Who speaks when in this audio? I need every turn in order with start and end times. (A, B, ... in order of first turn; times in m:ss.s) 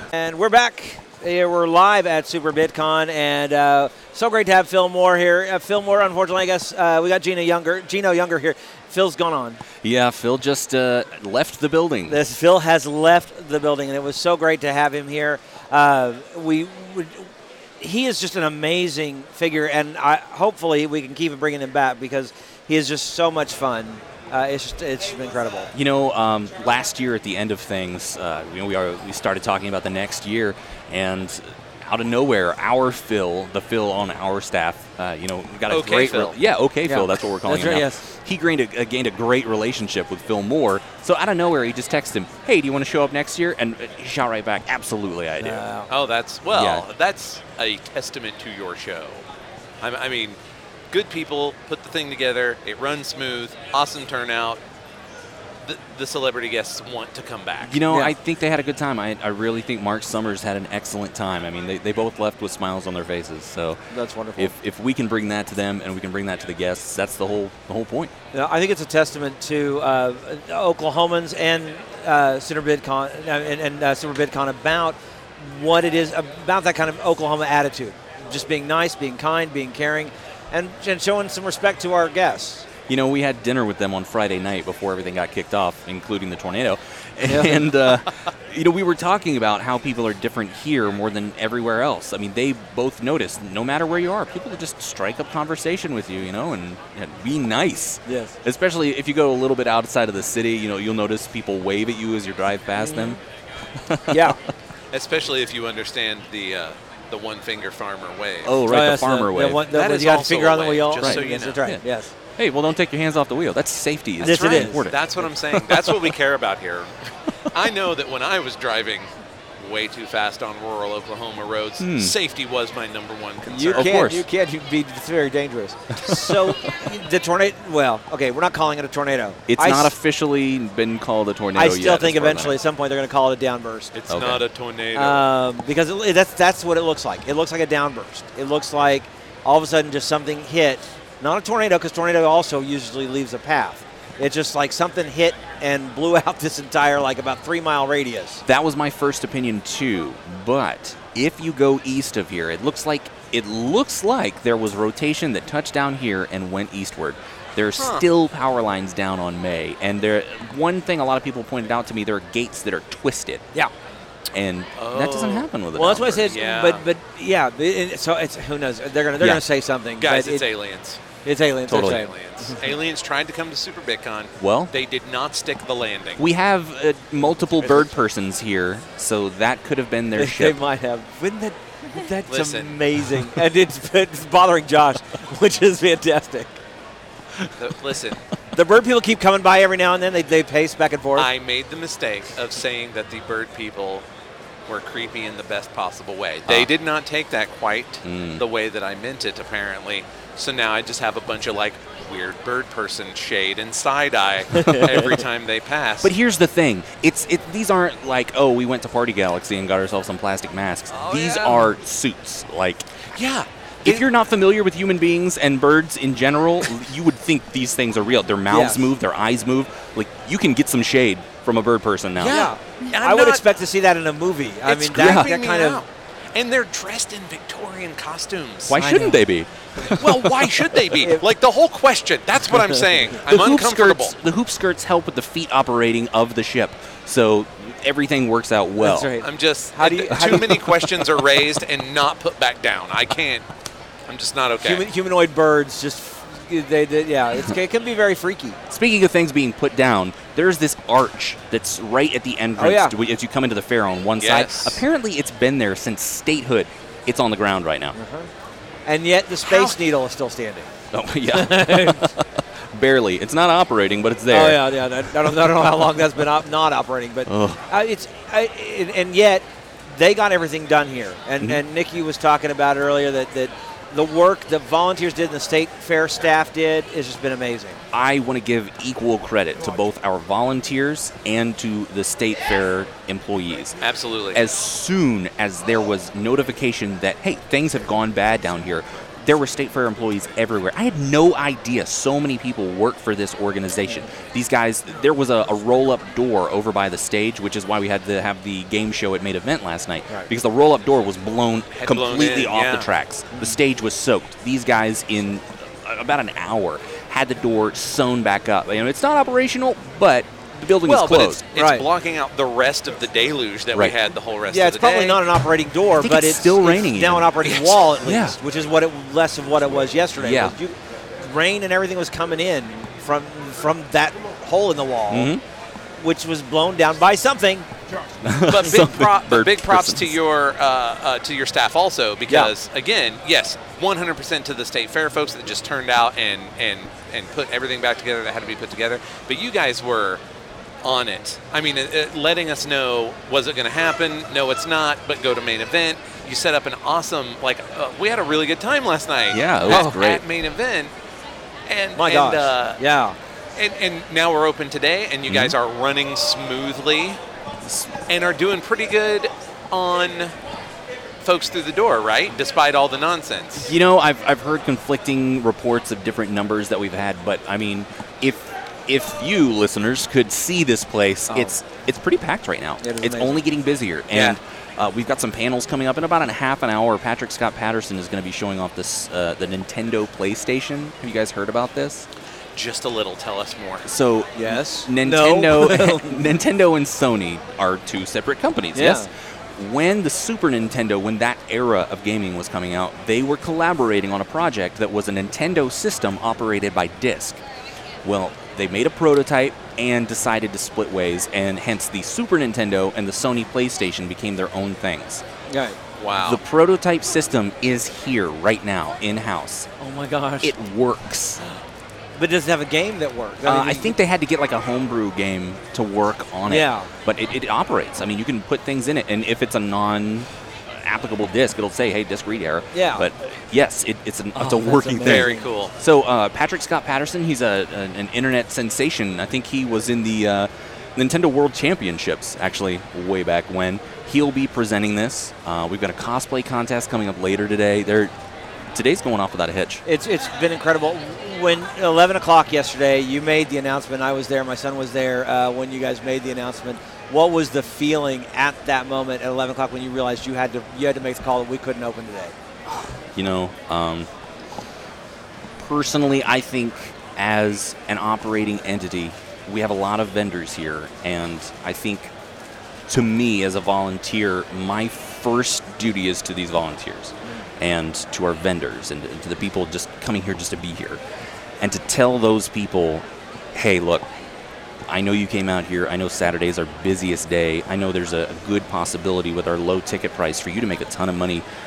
0:00.1-0:09.6 A
0:09.8-0:12.2 B
0:12.1-0:25.7 A
0:25.7-0:45.6 B
0:35.7-0:36.4 C
0:36.8-0:38.0 A
0:45.4-0:45.9 A
0:45.9-0:49.2 C
0:46.5-0:46.8 B
0:49.8-0:50.4 C
0:50.9-0:54.6 C
0:55.6-0:57.8 C
0:57.6-1:03.8 B
0:57.9-0:58.1 A
1:03.9-1:04.5 A
1:04.4-1:08.1 B
1:08.3-1:22.7 A
1:22.9-1:43.2 B
1:27.2-1:27.7 A
1:38.0-1:38.4 A
1:42.8-1:43.2 A
1:43.8-1:44.3 B
1:44.1-1:44.4 A
1:44.9-1:48.7 C
1:48.4-1:49.7 B
1:48.7-1:52.1 A
1:49.6-1:51.6 C
1:51.0-1:51.8 B
1:52.4-1:56.1 B
1:54.2-1:54.8 A
1:54.2-1:56.9 C
1:57.5-2:04.0 C
2:01.8-2:02.1 B
2:03.4-2:09.9 A
2:03.7-2:04.2 B
2:06.0-2:06.7 B
2:09.5-2:12.6 B
2:11.5-2:13.9 A
2:13.9-2:15.3 C
2:14.1-2:14.4 B
2:14.9-2:28.4 A
2:28.4-2:43.4 B
2:37.8-2:38.1 C
2:44.3-2:46.3 B
2:44.7-2:45.5 C
2:45.7-2:50.4 A
2:46.2-2:46.8 C
2:49.2-2:49.4 B
2:50.0-2:51.0 C
2:51.2-2:52.6 A
2:51.7-2:52.1 B
2:51.8-2:56.2 C
2:54.4-2:54.7 B
2:56.2-3:00.6 B
2:57.6-2:57.9 A
3:00.2-3:06.6 A
3:02.3-3:02.8 C
3:07.6-3:08.2 C
3:08.5-3:11.3 A
3:11.1-3:14.0 C
3:14.7-3:26.1 C
3:18.0-3:18.4 B
3:24.5-3:25.1 A
3:24.6-3:25.0 B
3:26.0-3:32.9 B
3:30.9-3:31.7 C
3:33.1-3:34.0 C
3:33.8-3:42.4 B
3:38.5-3:38.9 A
3:42.2-3:43.4 C
3:42.2-3:45.8 A
3:44.6-3:48.9 C
3:44.9-3:45.3 B
3:48.7-3:50.8 B
3:48.8-3:49.2 A
3:49.9-3:54.2 C
3:51.0-3:51.2 A
3:53.2-3:59.1 B
3:58.8-4:00.6 A
3:59.2-4:03.4 C
4:00.1-4:00.8 B
4:04.1-4:04.9 C
4:04.6-4:08.6 A
4:08.7-4:18.0 B
4:12.6-4:12.9 A
4:14.2-4:14.8 C
4:17.9-4:18.3 A
4:18.8-4:20.7 A
4:20.9-4:24.7 B
4:21.3-4:22.1 A
4:24.3-4:37.8 A
4:27.3-4:27.6 B
4:37.9-4:43.8 B
4:43.8-4:44.4 C
4:44.3-5:11.4 B
5:01.7-5:02.9 C
5:03.3-5:03.6 A
5:10.8-5:15.2 C
5:11.5-5:11.8 A
5:14.5-5:25.3 A
5:15.9-5:17.4 B
5:17.4-5:18.0 C
5:18.0-5:18.4 B
5:20.2-5:20.6 B
5:25.1-5:25.4 B
5:26.0-5:27.7 A
5:28.2-5:30.2 B
5:28.4-5:40.2 C
5:40.8-5:50.9 C
5:49.3-5:50.2 B
5:49.7-5:50.0 A
5:51.7-5:52.8 C
5:51.9-5:53.2 A
5:53.6-5:57.2 C
5:55.3-5:55.5 B
5:57.6-5:57.9 B
5:58.1-6:00.3 C
6:01.2-6:03.7 C
6:03.6-6:22.0 B
6:11.3-6:11.6 A
6:12.8-6:13.4 A
6:14.1-6:14.4 C
6:22.5-6:23.9 C
6:23.8-6:37.4 B
6:24.4-6:26.2 A
6:28.7-6:29.1 A
6:38.0-6:45.2 B
6:45.5-6:45.8 A
6:46.0-6:46.4 C
6:46.2-6:49.7 B
6:49.8-6:50.5 A
6:50.4-6:51.4 B
6:52.2-6:54.0 A
6:53.4-7:18.1 B
6:56.4-6:56.9 A
7:02.7-7:03.1 A
7:04.3-7:05.4 A
7:05.0-7:05.7 C
7:18.7-7:19.8 B
7:19.8-7:32.3 A
7:32.7-7:34.1 B
7:35.6-7:42.1 B
7:42.9-7:51.0 B
7:51.6-7:54.1 B
7:54.9-8:01.4 B